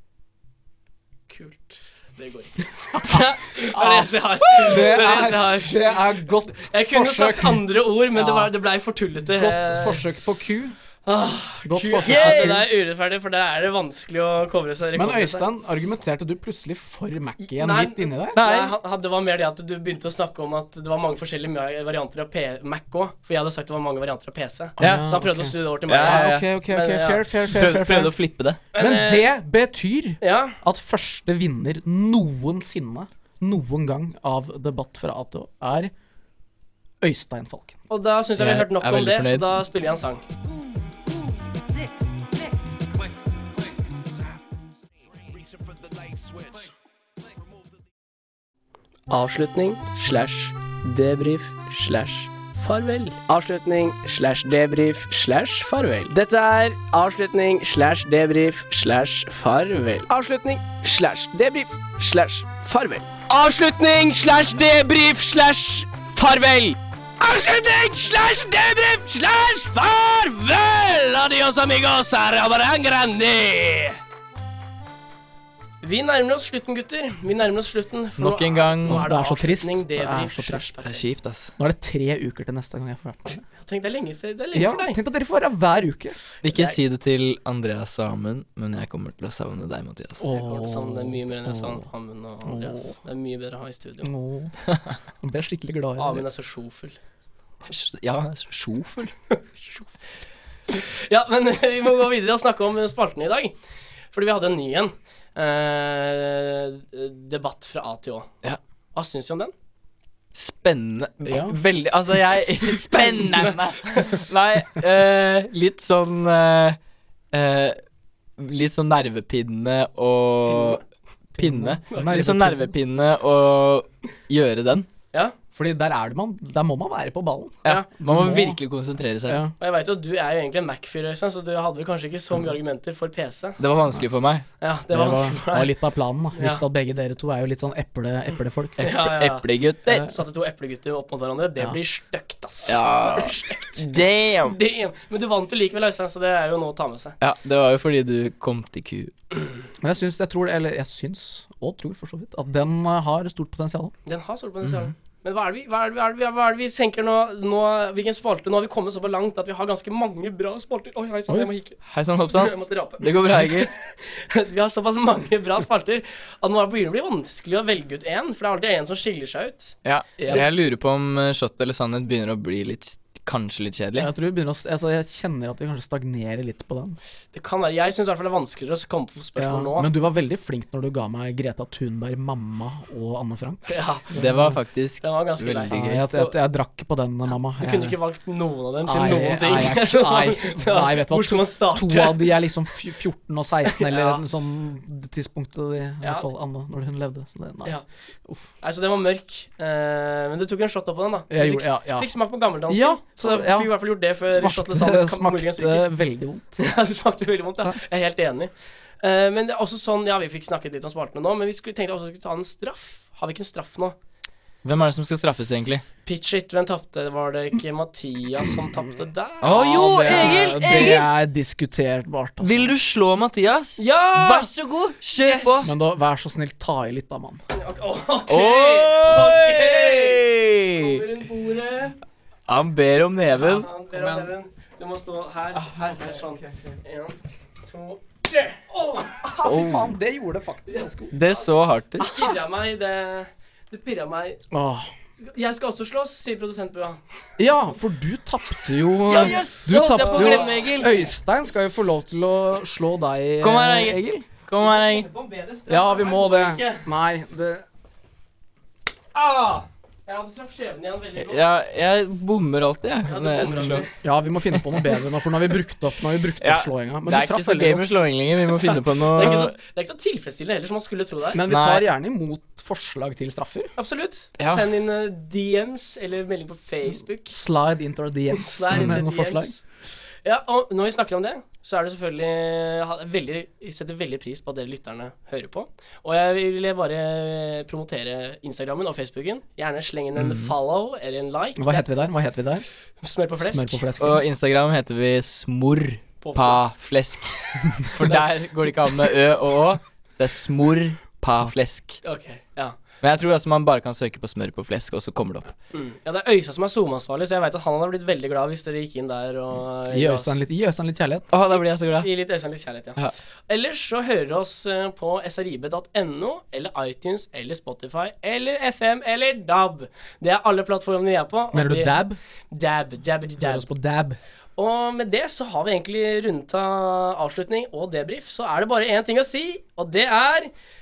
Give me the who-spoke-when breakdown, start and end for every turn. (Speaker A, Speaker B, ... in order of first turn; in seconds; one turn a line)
Speaker A: 1.3-6.1
Speaker B: 4.5-4.8
Speaker C: 4.6-8.5
Speaker A: 6.6-10.0
Speaker C: 9.3-10.8
Speaker A: 11.1-15.4
Speaker C: 11.7-12.7
Speaker B: 12.0-12.6
Speaker C: 14.9-18.4
Speaker A: 17.5-27.3
Speaker B: 18.3-18.7
Speaker C: 24.8-28.1
Speaker B: 24.8-25.1
Speaker B: 25.9-26.5
Speaker B: 27.5-28.6
Speaker A: 28.7-29.3
Speaker C: 28.8-35.9
Speaker A: 30.2-30.6
Speaker C: 37.0-37.8
Speaker A: 37.9-40.2
Speaker B: 38.4-39.6
Speaker A: 49.1-74.0
Speaker A: 75.8-81.0
Speaker B: 78.2-79.1
Speaker C: 78.8-80.7
Speaker B: 80.8-81.5
Speaker C: 81.6-83.4
Speaker A: 83.6-85.0
Speaker C: 84.5-86.2
Speaker B: 86.4-90.2
Speaker A: 86.5-86.8
Speaker C: 90.2-91.8
Speaker A: 90.2-94.1
Speaker C: 92.4-92.9
Speaker C: 94.0-94.5
Speaker C: 95.2-96.2
Speaker A: 96.0-97.0
Speaker B: 97.7-99.1
Speaker A: 99.3-99.8
Speaker A: 100.7-103.5
Speaker A: 104.1-108.3
Speaker A: 108.9-109.5
Speaker B: 110.3-116.8
Speaker C: 111.2-111.6
Speaker B: 117.3-117.8
Speaker B: 118.4-120.8
Speaker A: 120.5-120.8
Speaker C: 121.4-122.7
Speaker B: 121.4-124.9
Speaker A: 121.9-122.3
Speaker C: 125.5-128.6
Speaker B: 127.6-129.4
Speaker C: 129.3-129.5
Speaker A: 129.6-133.6
Speaker B: 133.6-134.4
Speaker A: 134.6-135.7
Speaker C: 134.9-139.1
Speaker A: 136.3-136.6
Speaker A: 138.8-147.2
Speaker B: 138.9-140.1
Speaker B: 142.7-144.6
Speaker B: 147.2-149.1
Speaker C: 149.8-153.9
Speaker A: 154.1-161.8
Speaker B: 154.6-154.9
Speaker B: 161.8-163.7
Speaker A: 162.3-169.8
Speaker B: 169.8-174.1
Speaker C: 170.2-170.5
Speaker C: 173.9-177.0
Speaker A: 177.3-179.9
Speaker C: 179.4-184.6
Speaker A: 183.7-184.1
Speaker B: 184.1-186.1
Speaker A: 185.0-186.3
Speaker C: 185.7-188.0
Speaker A: 187.6-192.3
Speaker C: 188.8-197.7
Speaker A: 193.7-194.2
Speaker A: 196.0-196.3
Speaker A: 198.6-205.9
Speaker C: 201.3-202.1
Speaker C: 202.7-203.7
Speaker C: 204.3-206.7
Speaker A: 206.6-213.9
Speaker B: 214.6-215.8
Speaker A: 216.0-221.0
Speaker B: 219.4-221.1
Speaker C: 219.5-222.7
Speaker B: 222.4-225.7
Speaker A: 223.8-224.5
Speaker A: 225.2-225.7
Speaker C: 225.6-227.4
Speaker A: 227.5-231.9
Speaker B: 228.3-231.0
Speaker B: 232.5-233.7
Speaker A: 233.4-239.0
Speaker C: 233.9-234.3
Speaker C: 235.5-236.7
Speaker C: 238.8-241.2
Speaker B: 239.4-239.9
Speaker B: 241.1-242.3
Speaker A: 242.0-244.4
Speaker C: 244.5-244.9
Speaker A: 245.2-247.0
Speaker C: 247.4-254.2
Speaker B: 249.0-251.0
Speaker A: 249.1-250.9
Speaker B: 253.4-255.1
Speaker A: 254.6-256.8
Speaker C: 255.7-257.6
Speaker A: 259.1-261.4
Speaker B: 261.2-263.9
Speaker A: 263.1-263.9
Speaker C: 263.4-268.0
Speaker B: 266.4-269.5
Speaker A: 269.1-271.4
Speaker C: 271.3-273.7
Speaker B: 271.5-271.9
Speaker A: 273.8-277.3
Speaker B: 274.4-274.7
Speaker C: 277.3-279.6
Speaker A: 278.3-279.6
Speaker B: 278.7-279.0
Speaker A: 280.2-291.9
Speaker B: 290.1-290.5
Speaker C: 291.6-292.6
Speaker A: 293.0-293.8
Speaker C: 293.4-294.2
Speaker B: 294.0-302.0
Speaker A: 296.2-296.8
Speaker A: 302.0-302.8
Speaker B: 303.0-305.5
Speaker A: 305.7-310.4
Speaker C: 309.9-311.3
Speaker B: 311.3-312.1
Speaker A: 312.0-323.6
Speaker C: 321.5-322.2
Speaker C: 323.4-324.2
Speaker A: 324.6-330.5